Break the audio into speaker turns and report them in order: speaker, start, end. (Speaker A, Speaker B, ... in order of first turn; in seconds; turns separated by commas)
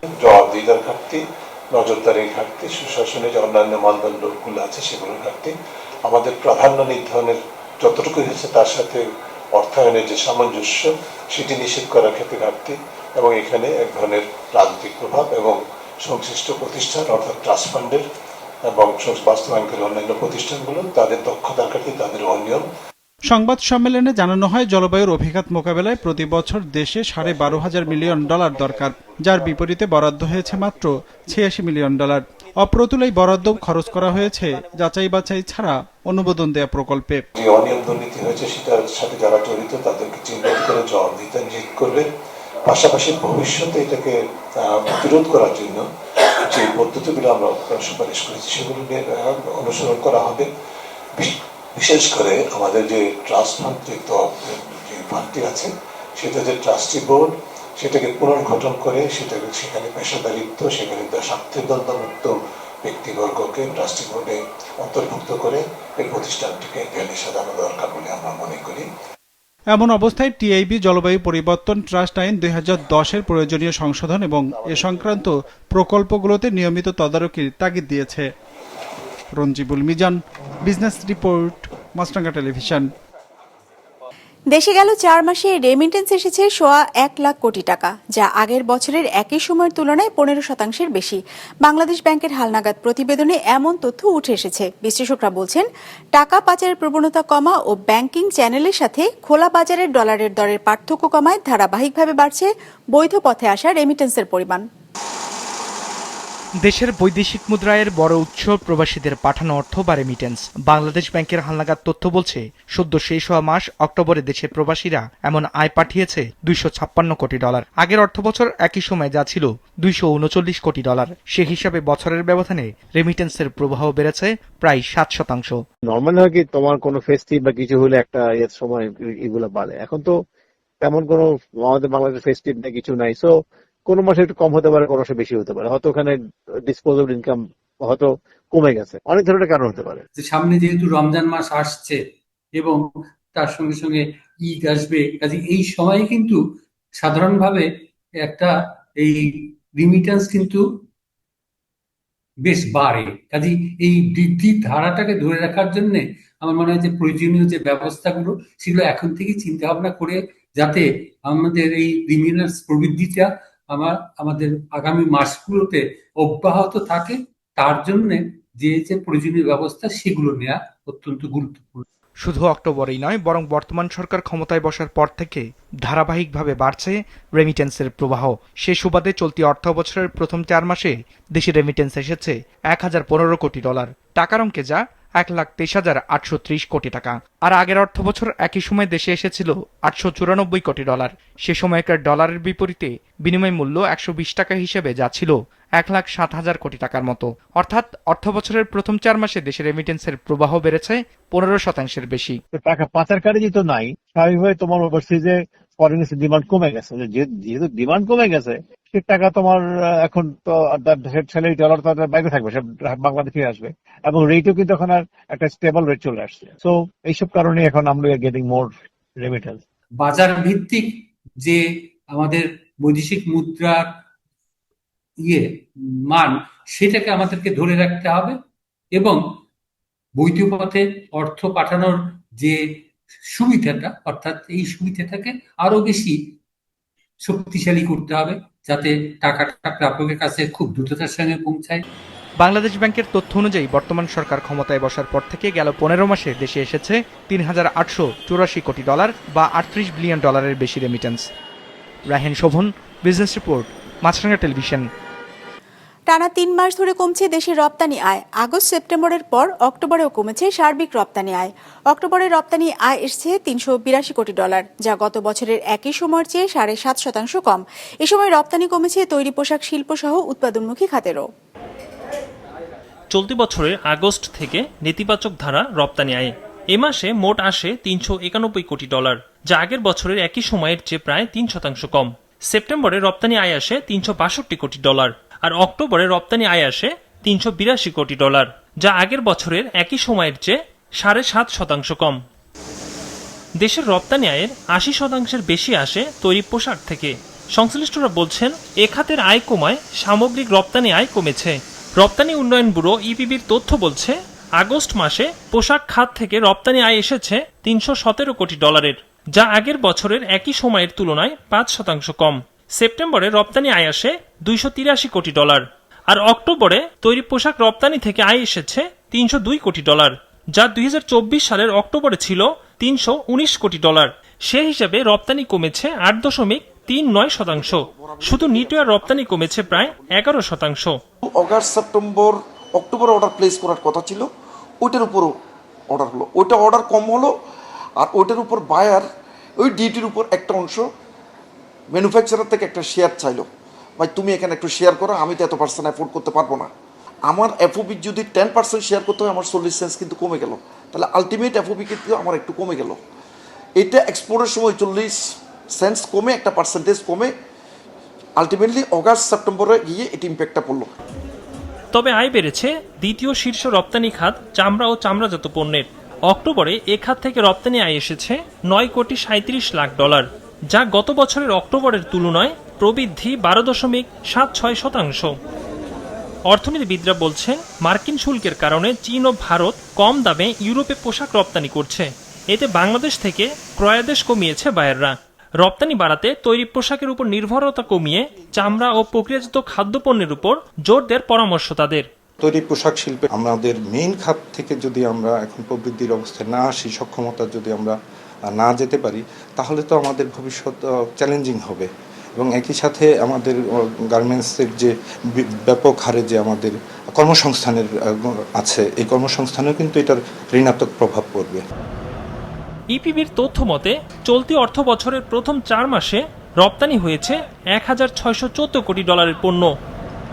Speaker A: 0.2-18.0, Speaker A: 18.6-22.6, Speaker B: 23.3-37.2, Speaker A: 37.4-42.0, Speaker A: 42.6-45.9, Speaker A: 46.4-50.5, Speaker A: 51.2-68.9, Speaker B: 69.7-78.3, Speaker B: 79.3-82.9, Speaker C: 84.5-104.7, Speaker D: 106.7-125.6, Speaker E: 125.9-130.2, Speaker E: 130.8-133.3, Speaker E: 133.9-136.2, Speaker E: 136.7-140.0, Speaker F: 140.2-142.0, Speaker F: 142.6-146.4, Speaker F: 147.0-147.7, Speaker F: 148.2-150.7, Speaker F: 152.4-171.8, Speaker D: 172.2-202.4, Speaker E: 202.5-219.6, Speaker F: 220.0-223.9, Speaker F: 225.2-228.4, Speaker F: 228.9-229.2, Speaker F: 230.2-236.3, Speaker F: 237.2-241.8, Speaker D: 242.4-251.3, Speaker D: 252.1-254.9, Speaker C: 256.1-271.3, Speaker G: 273.1-292.2, Speaker G: 293.6-331.0, Speaker H: 327.9-328.7, Speaker H: 331.2-334.3, Speaker H: 334.8-335.3, Speaker H: 335.9-337.3, Speaker H: 338.0-339.1, Speaker H: 339.6-340.9, Speaker H: 341.9-343.5, Speaker H: 344.0-346.7, Speaker H: 347.3-353.0, Speaker H: 353.8-357.3, Speaker H: 358.4-360.9, Speaker G: 361.9-375.4, Speaker G: 376.5-392.1, Speaker I: 392.4-398.0, Speaker I: 398.5-411.6, Speaker G: 412.9-419.7